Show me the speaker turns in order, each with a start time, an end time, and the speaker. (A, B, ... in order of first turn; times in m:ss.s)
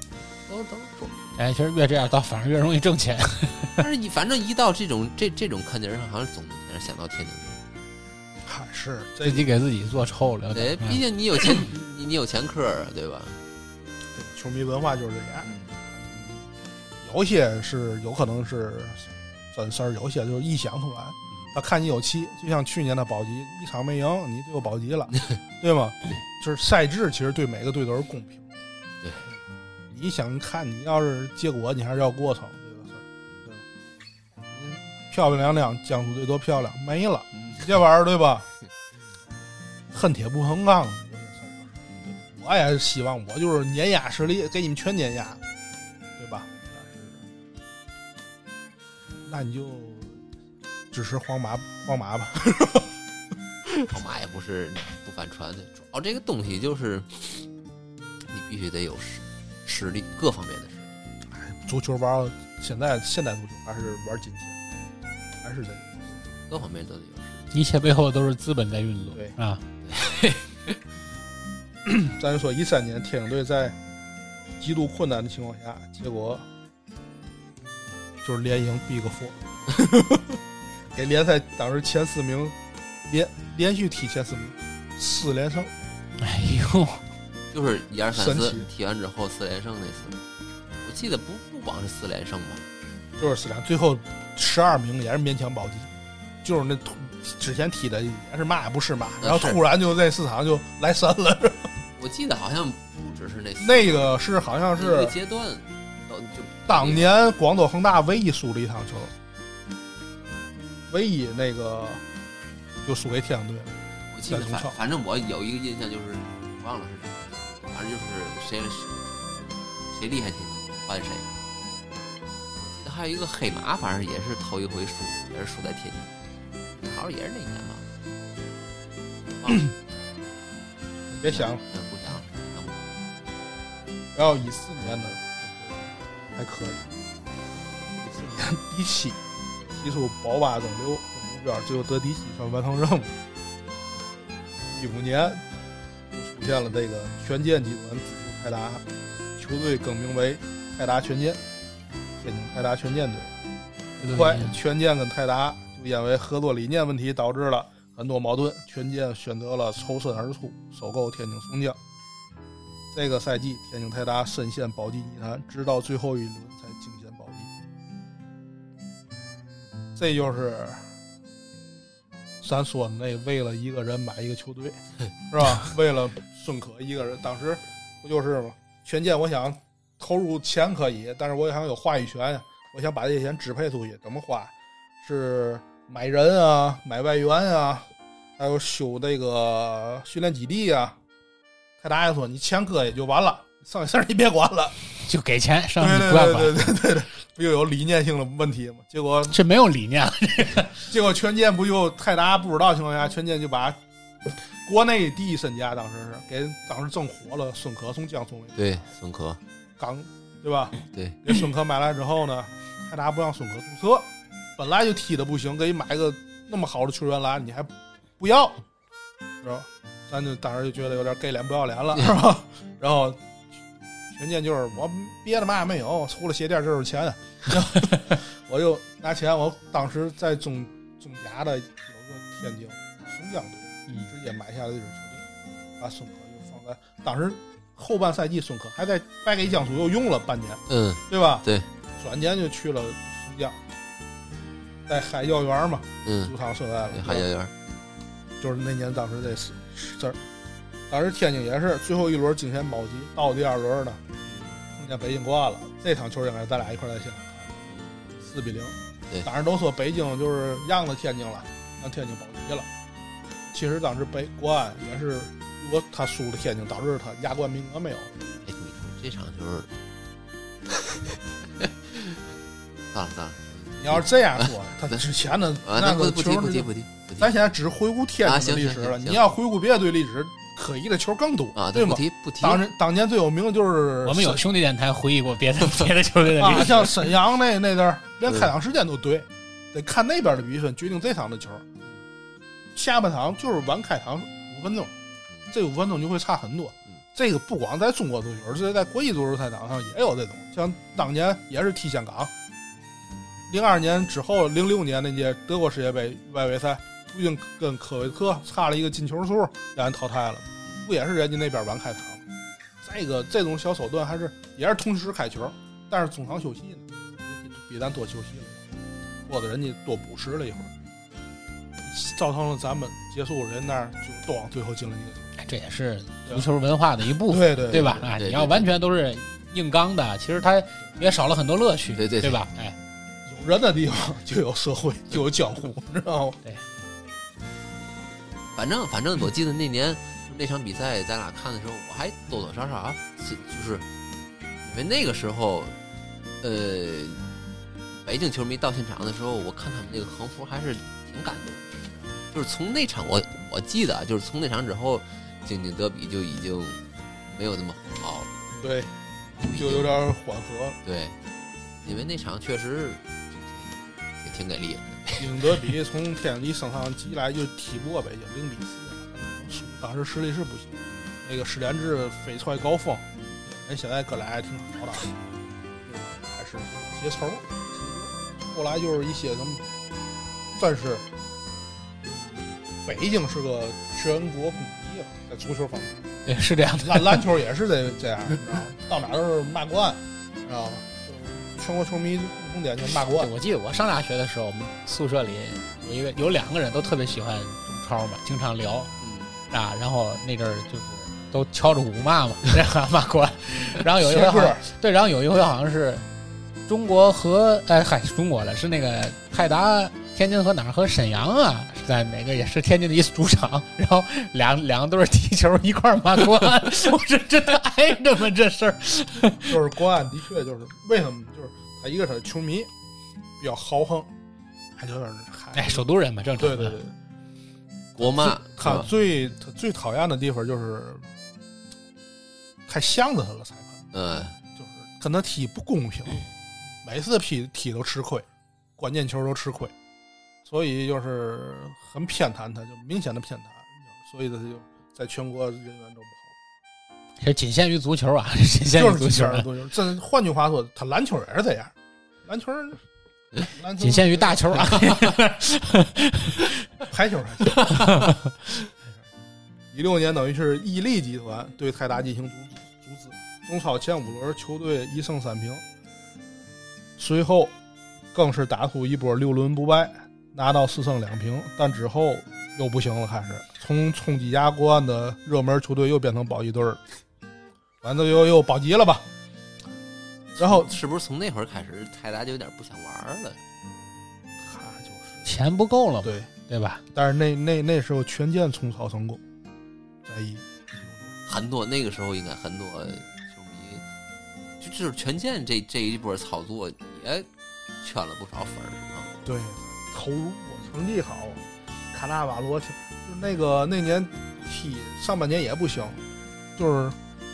0:00.4-0:01.2 A
0:01.4-0:03.8 B
0:03.8-0:07.6 A
0:08.4-0:09.5 C
0:09.2-0:11.0 B
0:10.5-0:13.4 A
0:14.1-0:16.5 C
0:15.4-0:15.8 A
0:17.0-0:28.4 C
0:25.1-0:25.4 A
0:29.0-0:29.3 A
0:29.9-0:33.6 C
0:34.5-0:38.4 C
0:37.3-0:37.8 A
0:39.9-0:45.4 C
0:41.9-0:42.2 A
0:46.2-0:47.2 C
0:49.2-0:50.2 C
0:50.9-0:52.9 C
0:53.9-0:57.4 A
0:58.3-1:00.9 A
1:01.3-1:04.6 C
1:05.4-1:06.2 C
1:06.5-1:07.5 A
1:07.5-1:09.6 B
1:09.8-1:10.8 A
1:11.8-1:13.8 C
1:14.6-1:16.4 C
1:18.2-1:20.4 C
1:20.9-1:25.7 C
1:26.2-1:27.0 B
1:27.5-1:30.2 A
1:28.1-1:28.7 C
1:30.8-1:32.6 A
1:33.2-1:41.7 C
1:39.2-1:39.6 A
1:42.0-1:44.1 A
1:43.6-1:45.2 C
1:44.7-1:47.1 A
1:46.7-1:49.1 C
1:50.9-1:52.0 C
1:52.8-1:53.8 C
1:54.1-2:01.3 A
1:54.3-1:54.8 C
2:02.6-2:06.1 A
2:06.8-2:07.8 A
2:09.4-2:09.7 A
2:11.1-2:11.6 C
2:11.2-2:12.8 A
2:14.1-2:16.9 C
2:18.0-2:19.2 C
2:19.7-2:23.1 C
2:24.7-2:25.4 C
2:26.1-2:28.8 C
2:29.4-2:31.4 C
2:32.2-2:33.3 C
2:34.0-2:34.6 B
2:34.0-2:41.8 C
2:42.9-2:47.5 C
2:50.0-2:50.9 C
2:52.4-3:11.0 C
3:11.8-3:14.8 C
3:15.0-3:16.6 B
3:15.8-3:19.4 C
3:19.3-3:20.8 B
3:20.8-3:28.6 C
3:28.6-3:29.4 A
3:29.8-3:38.6 C
3:30.9-3:31.2 A
3:39.4-3:43.2 C
3:44.1-3:55.2 C
3:55.8-4:01.4 C
4:00.7-4:01.7 A
4:02.0-4:03.6 C
4:04.9-4:07.3 C
4:06.0-4:06.3 A
4:06.9-4:07.5 A
4:08.4-4:10.2 C
4:10.9-4:14.0 C
4:14.2-4:14.6 A
4:14.7-4:17.5 C
4:17.7-4:18.0 A
4:18.2-4:22.7 C
4:23.5-4:28.2 C
4:28.4-4:29.7 A
4:30.8-4:32.2 A
4:32.9-4:35.0 A
4:33.8-4:44.4 C
4:35.6-4:37.3 A
4:38.2-4:39.2 A
4:41.5-4:42.6 A
4:44.0-4:47.1 B
4:46.4-4:51.6 C
4:48.2-4:48.5 A
4:52.7-4:54.9 C
4:55.5-5:02.3 C
5:03.5-5:12.2 C
5:12.8-5:18.6 C
5:19.2-5:20.7 C
5:21.8-5:25.3 C
5:25.4-5:32.8 B
5:27.3-5:28.1 C
5:28.0-5:28.7 A
5:32.0-5:32.4 A
5:33.2-5:36.4 C
5:38.5-5:43.8 A
5:44.6-5:45.7 A
5:46.4-5:47.2 A
5:48.0-5:58.3 A
5:58.6-6:00.8 C
5:59.4-5:59.9 A
6:00.8-6:01.2 A
6:01.8-6:05.7 A
6:05.2-6:15.1 C
6:13.1-6:13.4 A
6:15.8-6:19.6 C
6:20.6-6:21.0 C
6:22.8-6:26.0 C
6:26.2-6:27.2 B
6:26.8-6:33.3 C
6:33.2-6:38.9 B
6:39.0-6:39.4 A
6:39.5-6:46.0 B
6:44.0-6:44.6 C
6:46.7-6:59.6 B
6:59.4-7:02.7 C
7:03.4-7:04.1 C
7:04.8-7:05.8 C
7:05.5-7:06.8 B
7:06.4-7:06.9 C
7:08.0-7:08.9 A
7:08.0-7:11.1 C
7:12.7-7:13.8 C
7:13.9-7:14.4 A
7:14.5-7:16.2 C
7:16.8-7:18.2 C
7:18.8-7:19.7 C
7:20.4-7:26.3 C
7:27.2-7:29.5 B
7:28.7-7:31.7 C
7:32.2-7:32.8 C
7:33.4-7:34.8 C
7:33.8-7:36.5 B
7:36.9-7:37.6 C
7:37.7-7:38.2 B
7:39.7-7:45.6 C
7:47.0-7:47.5 C
7:48.1-7:56.8 C
7:57.8-7:59.1 C
8:00.4-8:00.7 C
8:00.4-8:03.4 A
8:04.4-8:05.2 C
8:05.2-8:06.8 B
8:06.0-8:06.3 C
8:06.9-8:09.2 C
8:10.0-8:11.1 C
8:11.2-8:13.8 A
8:14.6-8:17.3 A
8:17.8-8:19.1 A
8:19.2-8:26.0 C
8:26.6-8:27.0 C